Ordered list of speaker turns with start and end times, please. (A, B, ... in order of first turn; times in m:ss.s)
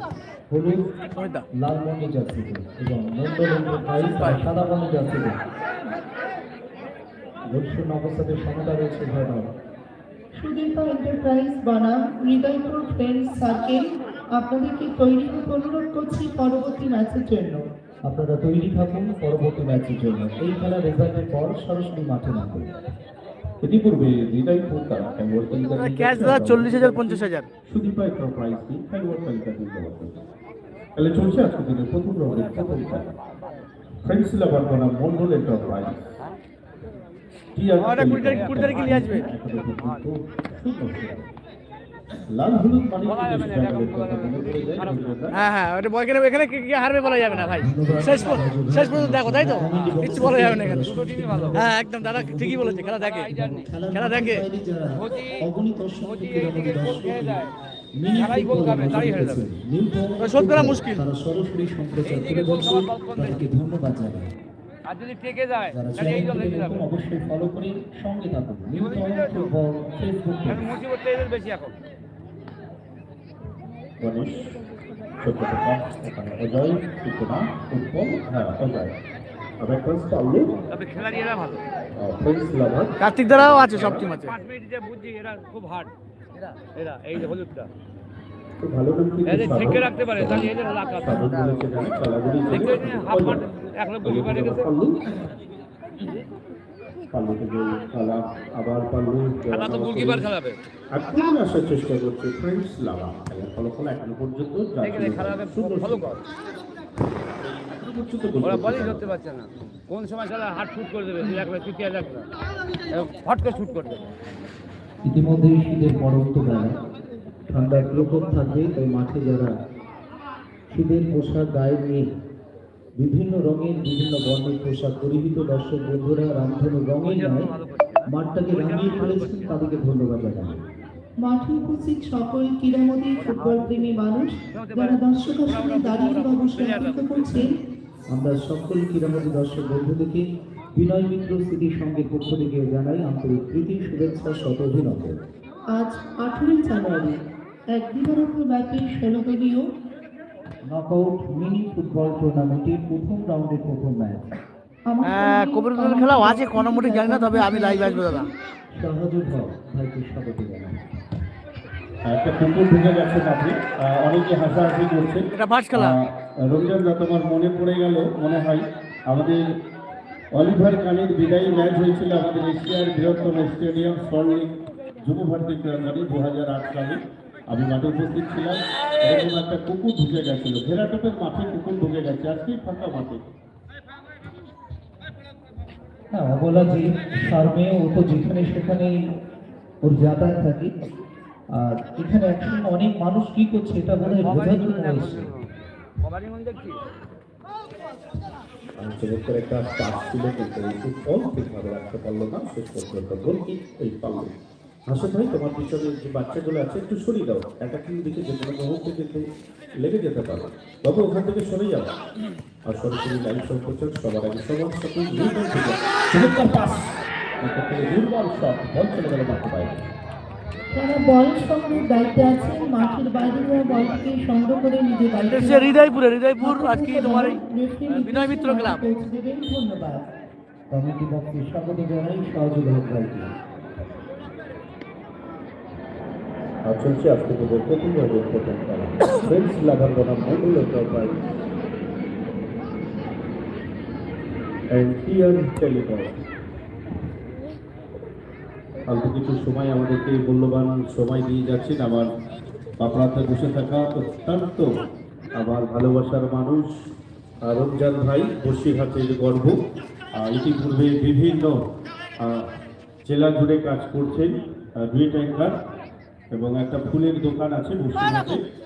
0:00.5-0:00.9 A
0:01.1-0:01.4 B
0:01.5-0:05.4 A
0:04.0-0:04.4 B
0:07.5-0:09.5 A
0:10.3-0:17.6 C
0:18.0-0:22.8 A
0:23.6-0:27.0 D
0:25.7-0:27.5 B
0:26.4-0:27.1 A
0:27.6-0:30.2 D
0:31.0-0:33.1 D
0:34.0-0:36.1 D
0:37.5-0:41.3 D
0:37.8-0:39.3 B
0:38.3-0:40.0 E
0:42.3-0:45.4 D
0:43.0-0:45.2 E
0:45.3-0:50.9 B
0:47.3-0:57.4 A
0:49.6-0:51.6 E
0:51.6-0:53.3 B
0:52.9-0:53.7 E
0:53.9-0:54.4 B
0:54.9-0:55.4 E
0:56.0-0:57.5 E
0:58.0-1:04.3 A
0:58.1-0:59.4 E
1:00.2-1:01.0 B
1:02.0-1:03.4 E
1:04.8-1:06.8 E
1:05.7-1:10.7 A
1:08.7-1:09.5 E
1:10.5-1:11.8 E
1:14.0-1:14.6 D
1:15.2-1:19.0 D
1:19.6-1:20.6 D
1:20.7-1:21.7 E
1:22.0-1:24.0 D
1:23.0-1:24.4 B
1:24.2-1:27.7 E
1:28.6-1:33.5 D
1:29.2-1:31.8 E
1:32.4-1:34.7 E
1:34.0-1:35.1 D
1:37.1-1:40.3 D
1:39.5-1:40.6 E
1:40.9-1:46.2 D
1:44.8-1:46.2 E
1:47.7-1:49.0 D
1:48.4-1:52.3 E
1:52.9-1:54.1 E
1:55.0-1:56.8 A
1:57.5-1:59.5 A
2:00.7-2:02.1 A
2:02.9-2:07.5 A
2:07.0-2:09.4 E
2:08.1-2:10.6 A
2:11.2-2:17.6 C
2:13.2-2:14.0 E
2:14.5-2:17.3 E
2:18.1-2:25.2 A
2:25.7-2:27.2 C
2:27.7-2:29.6 C
2:30.7-2:34.3 A
2:34.8-2:38.3 C
2:35.0-2:38.3 B
2:38.7-2:41.0 A
2:42.0-2:49.4 D
2:45.3-2:46.0 B
2:50.3-3:03.2 D
3:06.1-3:09.0 A
3:09.8-3:10.7 A
3:11.5-3:15.3 A
3:14.0-3:15.5 E
3:16.0-3:16.9 E
3:18.8-3:24.3 D
3:24.9-3:29.2 D
3:29.8-3:32.0 D
3:32.6-3:39.9 D
3:40.7-3:45.8 C
3:45.2-3:48.8 B
3:46.4-3:50.1 C
3:50.7-3:53.3 A
3:56.6-4:01.2 D
4:04.7-4:06.3 D
4:08.8-4:12.1 D
4:12.8-4:14.7 D
4:15.4-4:16.8 D
4:17.4-4:19.6 D
4:20.1-4:21.6 D
4:22.2-4:22.5 D
4:23.0-4:25.6 D
4:26.3-4:28.4 D